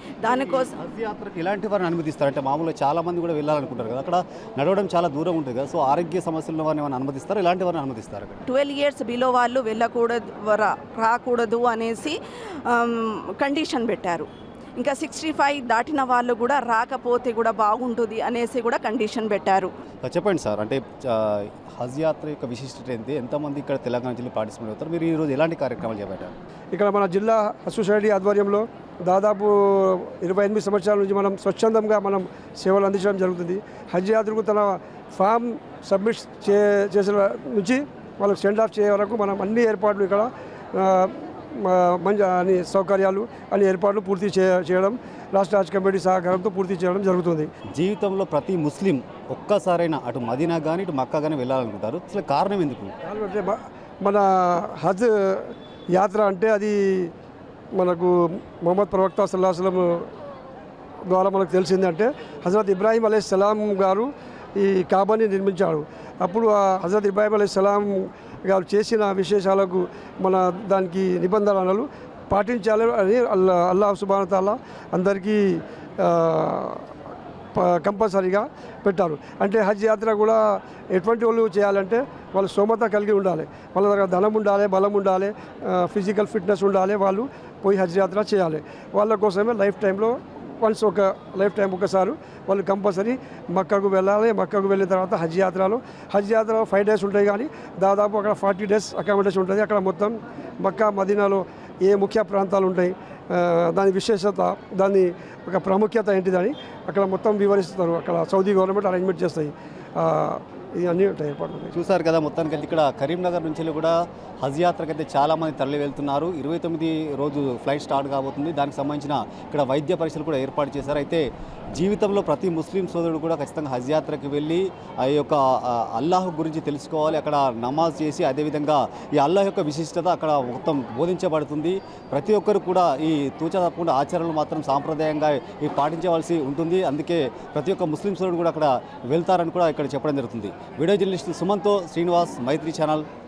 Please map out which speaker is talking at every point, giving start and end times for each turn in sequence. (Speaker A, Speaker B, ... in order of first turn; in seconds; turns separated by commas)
Speaker A: 0.2-0.7, Speaker B: 0.2-8.4, Speaker A: 8.5-19.7, Speaker B: 20.0-26.4, Speaker C: 26.7-47.5, Speaker B: 47.7-52.9, Speaker C: 53.0-57.1, Speaker C: 57.8-60.1, Speaker C: 61.1-76.9, Speaker C: 77.6-111.8, Speaker B: 111.7-143.1